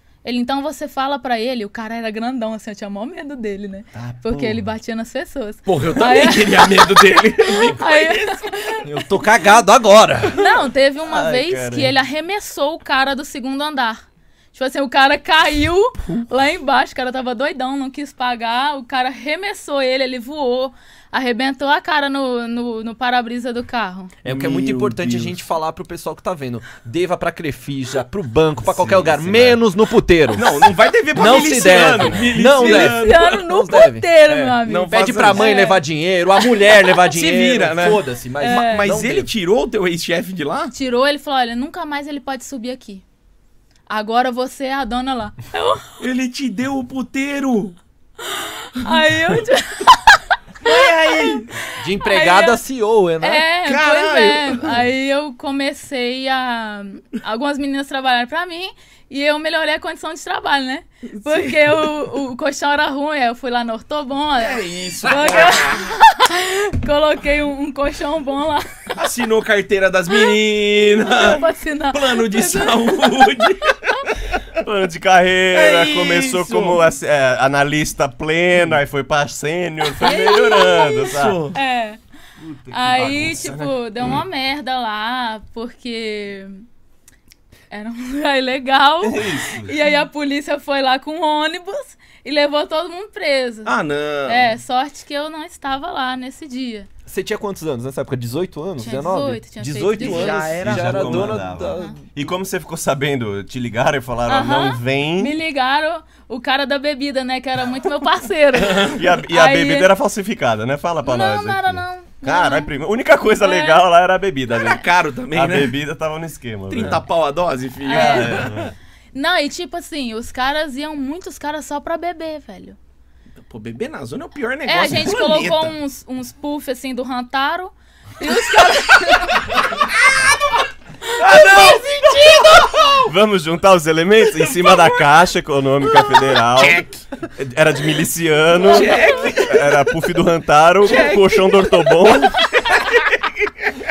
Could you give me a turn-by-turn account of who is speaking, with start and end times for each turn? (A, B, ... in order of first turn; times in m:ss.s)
0:00.2-0:08.9 A
0:04.0-0:04.7 B
0:05.7-0:08.8 C
0:08.8-0:10.4 D
0:10.3-0:24.1 A
0:11.0-0:12.0 B
0:24.2-0:39.3 D
0:24.3-0:25.4 C
0:28.6-0:29.6 B
0:30.3-0:33.3 C
0:31.7-0:32.4 B
0:32.6-0:35.8 A
0:34.6-0:35.5 C
0:37.1-0:40.7 C
0:38.4-0:38.9 A
0:40.7-0:43.0 A
0:43.9-0:46.0 A
0:46.0-0:47.8 C
0:48.2-0:52.6 A
0:50.6-0:51.5 C
0:51.8-0:53.5 D
0:53.2-1:08.8 A
0:53.6-0:54.8 C
1:01.2-1:01.9 C
1:04.4-1:06.0 C
1:09.0-1:14.4 C
1:11.0-1:13.4 A
1:14.6-1:21.4 B
1:15.5-1:16.8 C
1:20.0-1:22.0 A
1:21.0-1:21.6 C
1:22.4-1:24.2 B
1:22.7-1:26.6 A
1:27.7-1:33.7 A
1:29.0-1:29.8 B
1:33.6-1:34.6 C
1:34.3-1:36.9 A
1:37.1-1:42.0 D
1:38.8-1:40.5 A
1:40.0-1:41.4 C
1:40.6-1:45.4 B
1:44.3-1:49.9 A
1:48.7-1:57.0 B
1:51.0-1:52.7 A
1:53.4-1:53.8 A
1:54.5-1:55.7 C
1:56.7-1:58.7 C
1:57.9-1:58.5 A
1:57.9-1:58.7 B
1:59.1-2:02.8 A
2:03.4-2:05.8 C
2:04.7-2:09.7 A
2:09.8-2:10.4 C
2:11.2-2:13.1 C
2:11.3-2:12.9 D
2:13.0-2:16.8 B
2:14.4-2:15.0 C
2:16.6-2:17.0 C
2:17.4-2:22.5 B
2:18.6-2:19.7 C
2:18.7-2:19.3 A
2:20.8-2:21.6 C
2:22.4-2:23.2 C